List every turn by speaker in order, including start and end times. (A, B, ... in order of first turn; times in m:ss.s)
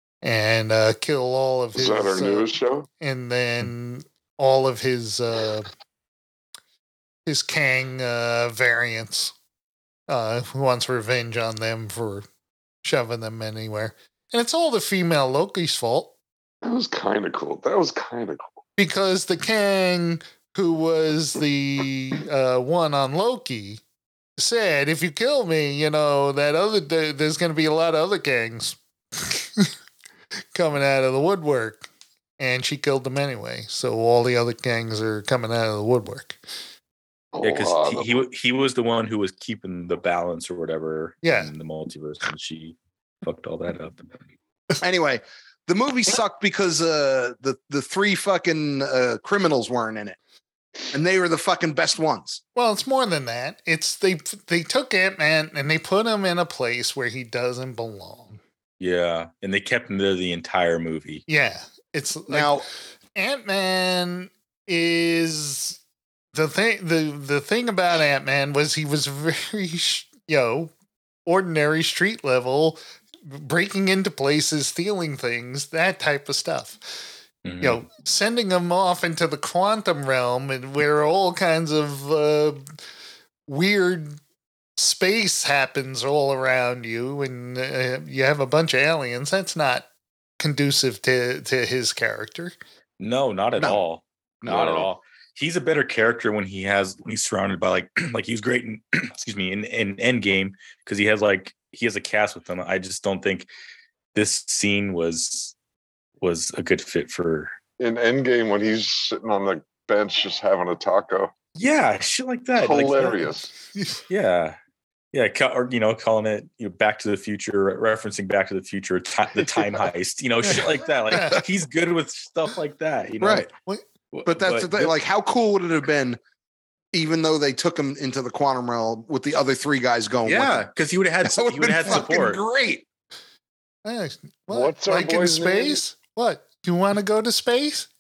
0:00.2-0:05.7 A
0:01.8-0:02.9 B
0:07.3-0:09.3 A
0:10.1-0:12.3 A
0:12.8-0:16.1 A
0:16.6-0:18.5 B
0:18.8-0:23.8 A
0:24.4-0:29.7 A
0:30.5-0:31.9 A
0:32.4-0:36.4 A
0:37.3-0:38.2 B
0:37.4-0:44.0 C
0:41.2-0:41.5 A
0:44.8-0:50.2 D
0:50.9-0:52.4 D
0:52.6-0:58.4 A
0:58.8-1:01.2 C
1:01.3-1:02.6 A
1:02.3-1:02.6 D
1:03.2-1:05.8 A
1:06.3-1:10.7 A
1:11.3-1:17.1 A
1:17.4-1:17.8 C
1:17.6-1:22.7 A
1:23.5-1:24.2 A
1:24.8-1:29.9 A
1:30.4-1:32.6 A
1:33.0-1:43.5 C
1:34.4-1:34.9 D
1:44.1-1:45.6 C
1:46.2-1:47.5 C
1:47.8-1:51.3 B
1:51.6-1:53.3 C
1:52.6-1:53.5 B
1:53.7-1:54.0 A
1:54.1-1:54.6 C
1:55.1-2:03.5 C
2:01.1-2:01.4 A
2:03.2-2:03.5 D
2:04.1-2:05.0 C
2:04.3-2:06.2 D
2:06.9-2:10.7 D
2:10.2-2:12.4 C
2:11.2-2:12.8 D
2:13.8-2:17.9 A
2:14.5-2:15.8 B